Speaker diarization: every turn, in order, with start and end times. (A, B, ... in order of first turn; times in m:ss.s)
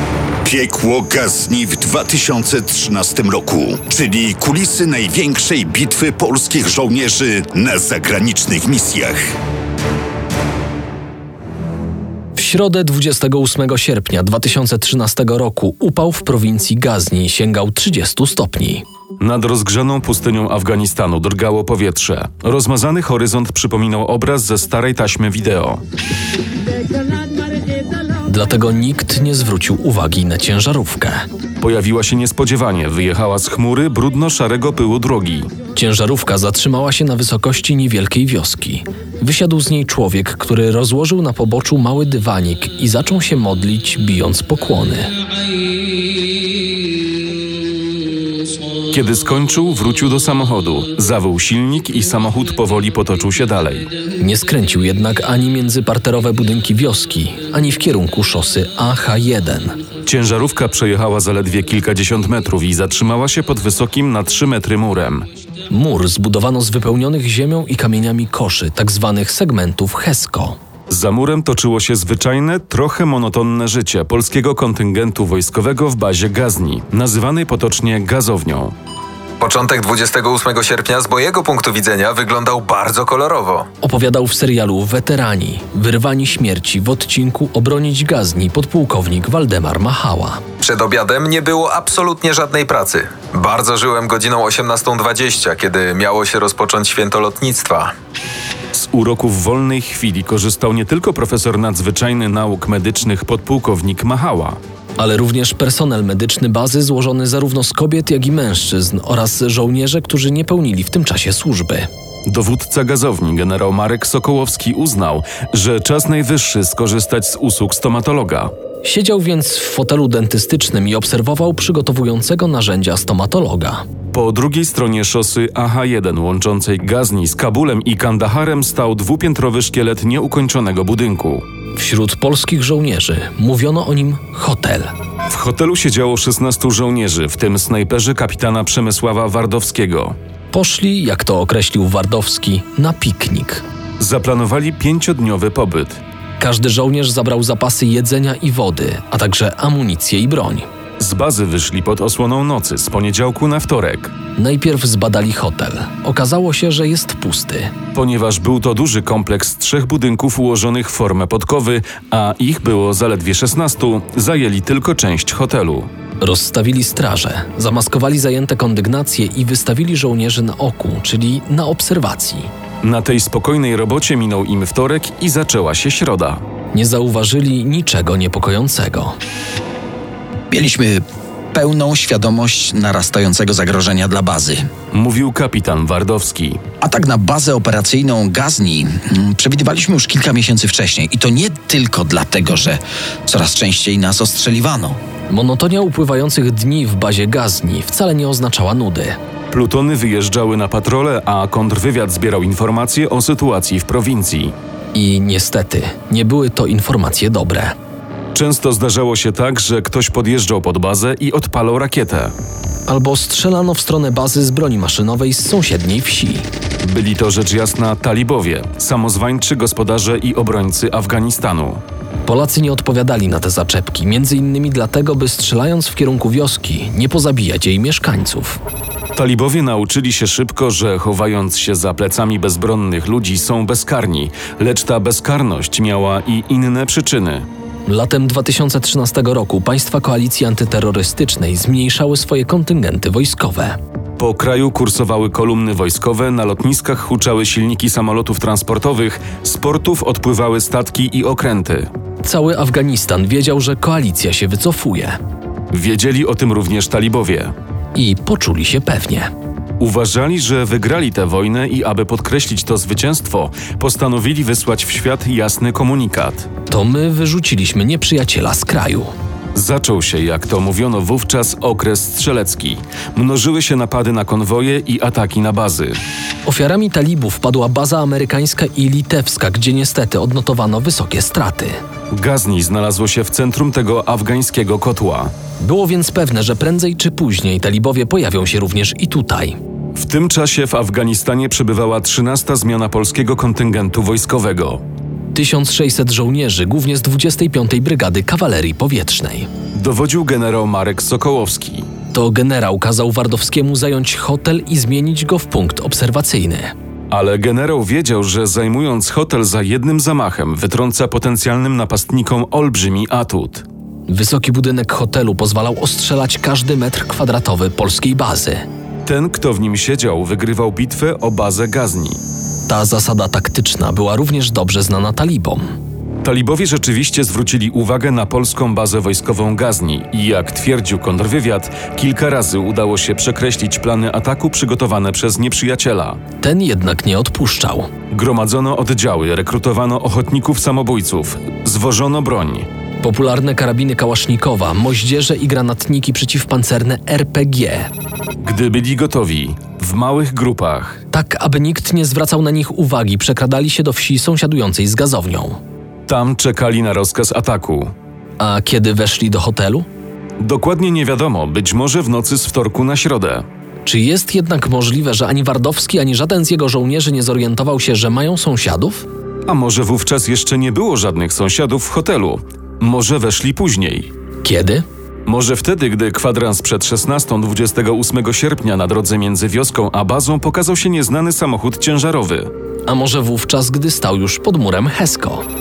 0:00.4-0:09.3 A
0:12.4-0:18.8 B
0:19.2-0:25.8 C
0:28.3-0:31.2 B
0:31.6-0:35.5 C
0:35.7-0:45.1 B
0:48.9-0:53.9 C
0:54.2-0:59.8 B
1:00.1-1:05.3 C
1:05.7-1:10.6 B
1:10.9-1:18.7 C
1:19.4-1:23.7 D
1:23.8-1:30.4 B
1:30.6-1:37.9 D
1:38.7-1:44.6 C
1:45.0-1:51.9 B
1:52.3-1:58.5 C
1:58.8-2:03.8 B
2:04.1-2:11.4 C
2:11.8-2:14.9 B
2:15.3-2:20.2 C
2:20.5-2:23.6 B
2:24.0-2:26.0 C
2:26.4-2:30.7 B
2:31.0-2:34.1 C
2:34.4-2:37.7 B
2:37.9-2:45.9 C
2:46.2-2:52.5 B
2:52.8-2:56.4 C
2:56.7-2:59.2 B
3:00.5-3:01.0 E
3:01.5-3:04.7 E
3:04.9-3:06.6 C
3:06.8-3:15.0 E
3:15.3-3:19.2 B
3:19.5-3:24.6 C
3:24.9-3:27.8 B
3:28.4-3:32.4 C
3:32.9-3:36.5 B
3:36.8-3:41.8 C
3:42.2-3:48.6 B
3:49.2-3:57.5 C
3:57.9-4:03.8 B
4:04.2-4:11.9 C
4:12.2-4:15.2 B
4:15.7-4:17.6 C
4:18.0-4:19.3 B
4:19.8-4:26.5 C
4:26.7-4:29.1 B
4:29.6-4:36.0 C
4:36.5-4:41.8 B
4:42.1-4:45.3 C
4:45.6-4:49.6 B
4:50.0-4:54.8 C
4:55.3-4:59.5 B
4:59.8-5:01.9 C
5:02.1-5:06.7 B
5:07.1-5:13.6 C
5:14.1-5:18.6 B
5:19.0-5:22.2 C
5:22.7-5:25.7 B
5:26.2-5:36.2 C
5:36.4-5:37.9 B
5:38.1-5:42.7 C
5:43.0-5:47.9 B
5:48.4-5:51.0 C
5:51.1-5:55.6 B
5:56.1-5:57.9 C
5:58.4-5:59.9 B
6:00.4-6:03.4 C
6:03.8-6:09.1 B
6:09.5-6:14.1 C
6:14.4-6:14.8 B
6:15.3-6:22.5 C
6:22.9-6:25.4 B